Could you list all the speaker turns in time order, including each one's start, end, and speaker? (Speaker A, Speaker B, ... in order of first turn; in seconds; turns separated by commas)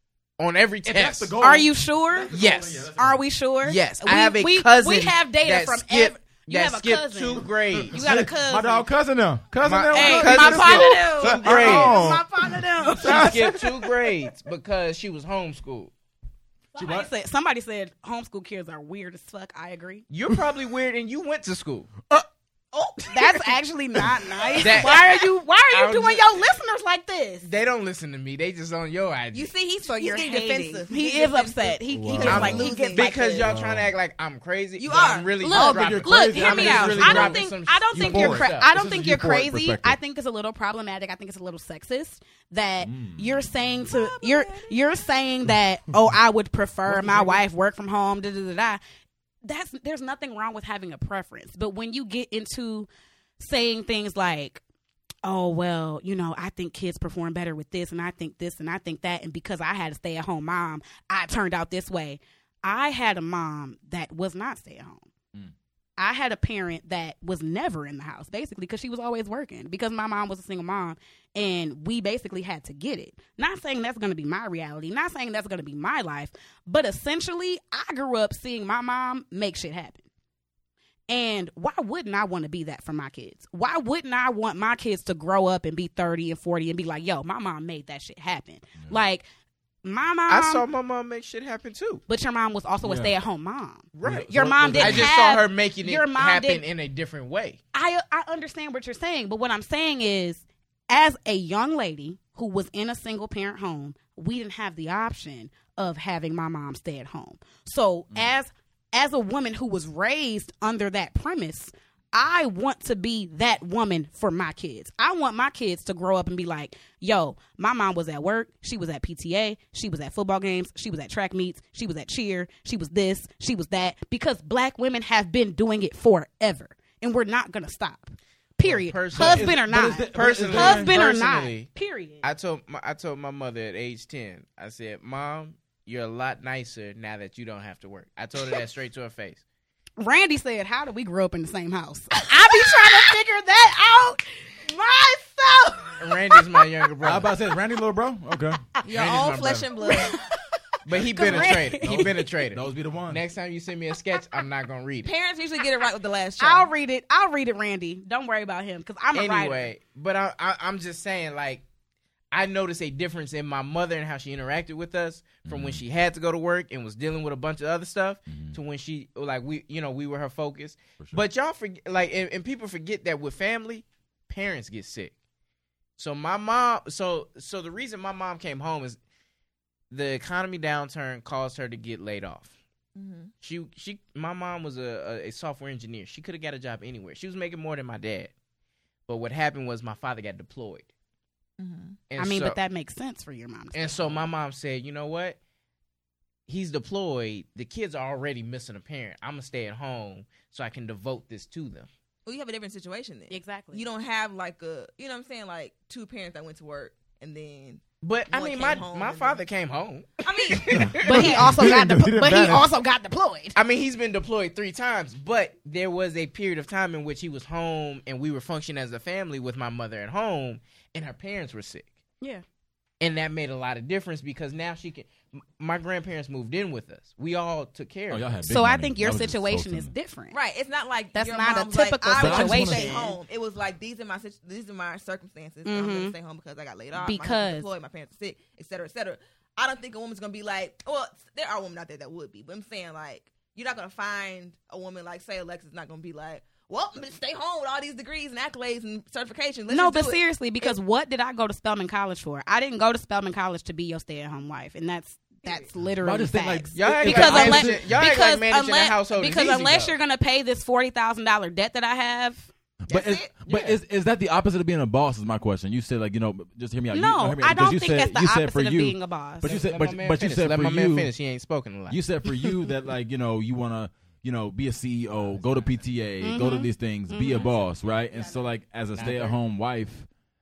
Speaker A: 0.4-1.3, Speaker B: 0.8-3.2, Speaker C: 1.4-2.3, Speaker A: 2.3-2.9, Speaker C: 3.0-8.9, Speaker A: 3.6-8.0, Speaker B: 7.7-13.7, Speaker A: 9.6-12.0, Speaker C: 9.9-13.9, Speaker A: 13.0-15.9, Speaker B: 16.7-17.1, Speaker C: 16.7-20.0, Speaker A: 20.1-21.9, Speaker C: 23.1-27.5, Speaker A: 24.6-26.4, Speaker A: 27.4-29.5, Speaker D: 29.3-33.4, Speaker C: 29.9-33.4, Speaker B: 31.9-32.7, Speaker A: 32.2-38.7, Speaker B: 33.4-33.9, Speaker D: 34.8-35.4, Speaker C: 35.4-48.8, Speaker B: 35.5-40.0, Speaker B: 42.8-43.5, Speaker D: 43.9-45.0, Speaker B: 46.9-47.4, Speaker C: 49.4-54.6, Speaker C: 55.2-65.1, Speaker C: 66.0-80.0, Speaker C: 81.1-89.3, Speaker C: 89.8-90.6, Speaker A: 90.3-92.0, Speaker C: 92.1-96.6, Speaker B: 92.8-93.2, Speaker A: 93.9-97.6, Speaker B: 94.0-95.2, Speaker C: 97.7-132.2, Speaker A: 128.6-139.4, Speaker B: 129.1-130.9, Speaker C: 140.0-146.6, Speaker A: 146.0-147.3, Speaker B: 147.0-148.6, Speaker D: 148.8-150.2, Speaker A: 148.9-149.7, Speaker C: 149.8-150.4, Speaker A: 150.8-155.1, Speaker C: 150.9-152.2, Speaker B: 151.0-153.2, Speaker D: 155.0-156.7, Speaker C: 156.4-159.7, Speaker A: 159.1-161.6, Speaker A: 162.3-175.1, Speaker B: 165.4-165.8, Speaker B: 168.3-168.6, Speaker A: 176.0-179.0, Speaker A: 179.9-182.5, Speaker D: 182.9-183.3, Speaker A: 183.4-188.3, Speaker A: 189.1-190.9, Speaker D: 191.6-192.0, Speaker A: 192.1-192.6, Speaker C: 192.2-194.3, Speaker A: 193.7-195.4, Speaker A: 196.5-201.9, Speaker D: 202.3-209.4, Speaker C: 203.3-203.8, Speaker A: 208.0-211.7, Speaker D: 210.2-211.0, Speaker B: 210.7-212.7, Speaker C: 211.0-213.6, Speaker A: 213.5-221.9, Speaker A: 223.0-228.3, Speaker B: 228.1-229.9, Speaker C: 228.4-230.3, Speaker D: 230.3-250.7, Speaker C: 231.1-233.2, Speaker B: 232.1-233.0, Speaker C: 235.6-236.1, Speaker C: 236.9-237.7, Speaker C: 249.7-262.5, Speaker B: 256.0-257.9, Speaker A: 256.7-259.9, Speaker D: 262.9-263.3, Speaker B: 262.9-271.1, Speaker A: 263.4-263.8, Speaker C: 266.9-269.6, Speaker A: 269.4-272.0, Speaker B: 271.9-280.1, Speaker A: 275.4-275.7, Speaker C: 276.2-277.6, Speaker D: 278.1-278.4, Speaker A: 278.9-279.4